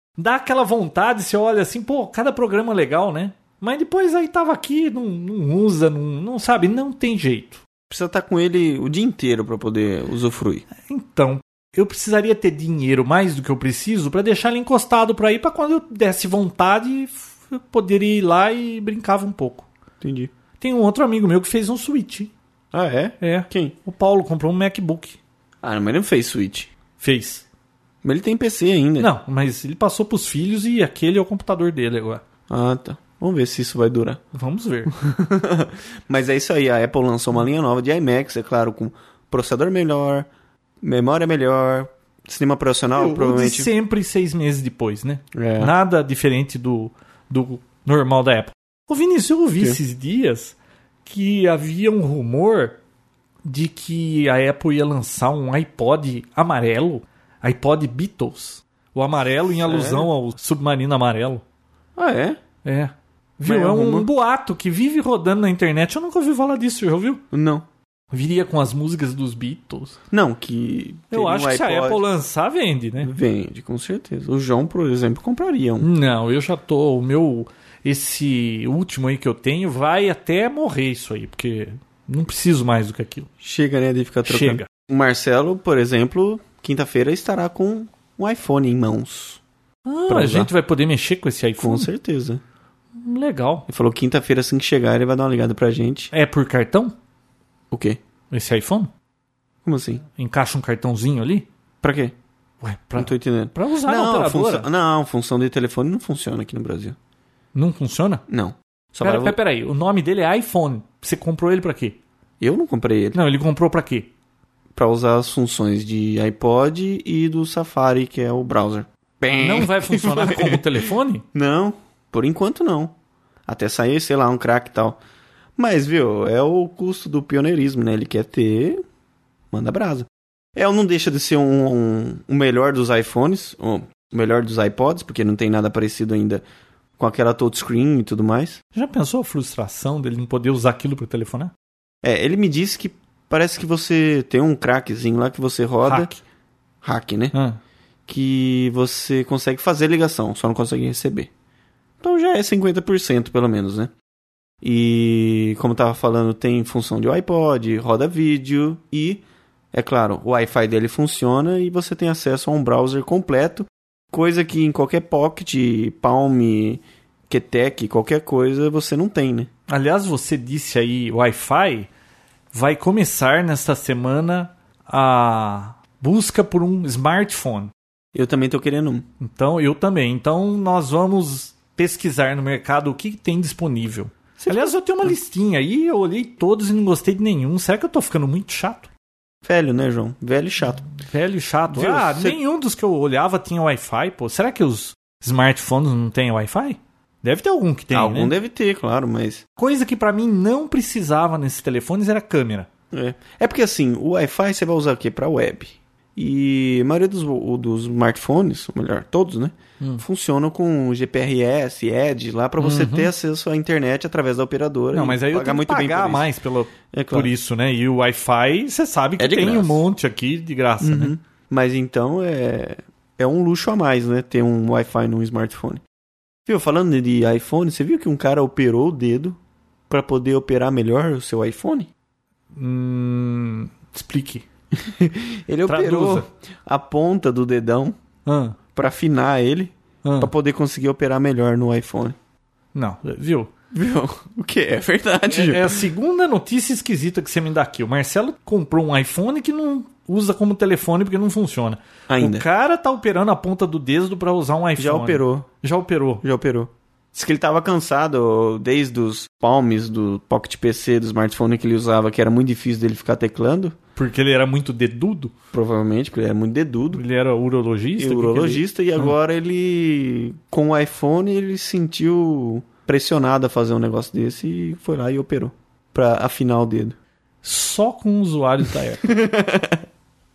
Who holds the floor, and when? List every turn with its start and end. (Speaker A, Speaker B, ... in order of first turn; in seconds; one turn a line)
Speaker A: 0.2-7.6
Speaker B: 7.9-10.7
Speaker A: 10.8-19.7
Speaker B: 20.0-20.3
Speaker A: 20.6-22.3
Speaker B: 22.7-23.8
Speaker A: 23.2-25.2
Speaker B: 25.6-26.7
Speaker A: 27.0-27.4
Speaker B: 28.0-29.1
Speaker A: 29.0-32.2
Speaker B: 32.5-34.2
Speaker A: 34.3-34.9
Speaker B: 34.9-40.3
Speaker B: 40.8-43.7
Speaker A: 42.9-52.8
Speaker B: 45.3-45.7
Speaker A: 53.4-61.4
Speaker B: 59.6-60.1
Speaker B: 62.0-62.4
Speaker A: 62.6-67.2
Speaker B: 63.5-64.1
Speaker B: 67.3-67.7
Speaker A: 68.1-70.0
Speaker B: 70.1-72.0
Speaker A: 71.1-73.1
Speaker B: 73.0-75.9
Speaker A: 75.8-83.3
Speaker B: 83.4-89.4
Speaker A: 84.2-84.7
Speaker A: 89.9-91.9
Speaker B: 90.1-90.5
Speaker B: 91.6-92.4
Speaker A: 93.0-93.7
Speaker B: 93.7-96.1
Speaker A: 96.1-97.0
Speaker B: 97.7-98.0
Speaker A: 98.3-98.9
Speaker B: 99.7-100.0
Speaker A: 100.1-101.5
Speaker B: 101.8-102.1
Speaker A: 102.6-104.7
Speaker B: 103.0-107.0
Speaker A: 107.5-108.2
Speaker B: 108.3-109.4
Speaker A: 109.0-112.0
Speaker B: 112.4-113.2
Speaker A: 113.2-114.1
Speaker B: 114.8-122.9
Speaker A: 119.4-121.2
Speaker B: 123.5-125.0
Speaker B: 125.6-128.8
Speaker B: 129.5-136.4
Speaker B: 137.0-138.6
Speaker A: 138.7-141.5
Speaker B: 142.0-146.1
Speaker A: 145.8-146.2
Speaker B: 146.8-147.3
Speaker A: 147.3-147.6
Speaker B: 148.1-151.3
Speaker B: 152.0-153.9
Speaker B: 154.6-169.5
Speaker A: 169.7-171.9
Speaker A: 172.5-177.7
Speaker B: 178.2-179.1
Speaker A: 179.2-188.9
Speaker B: 184.4-185.1
Speaker B: 189.4-190.9
Speaker A: 190.9-198.3
Speaker B: 191.7-192.4
Speaker B: 197.9-199.4
Speaker A: 199.6-202.7
Speaker B: 202.9-216.3
Speaker A: 212.6-213.1
Speaker A: 214.9-221.1
Speaker B: 216.9-217.3
Speaker B: 219.2-219.8
Speaker B: 220.8-225.8
Speaker B: 226.5-229.4
Speaker B: 229.9-231.9
Speaker A: 232.5-234.4
Speaker B: 234.8-238.0
Speaker A: 235.7-236.3
Speaker A: 238.2-238.6
Speaker B: 238.8-242.2
Speaker A: 240.0-240.3
Speaker A: 242.7-243.5
Speaker B: 243.7-245.9
Speaker A: 245.3-256.2
Speaker B: 252.1-252.4
Speaker B: 254.8-255.5
Speaker B: 256.2-263.8
Speaker A: 264.0-265.3
Speaker B: 265.5-267.0
Speaker A: 266.9-269.1
Speaker B: 268.0-277.0
Speaker A: 277.4-279.0
Speaker B: 279.0-279.8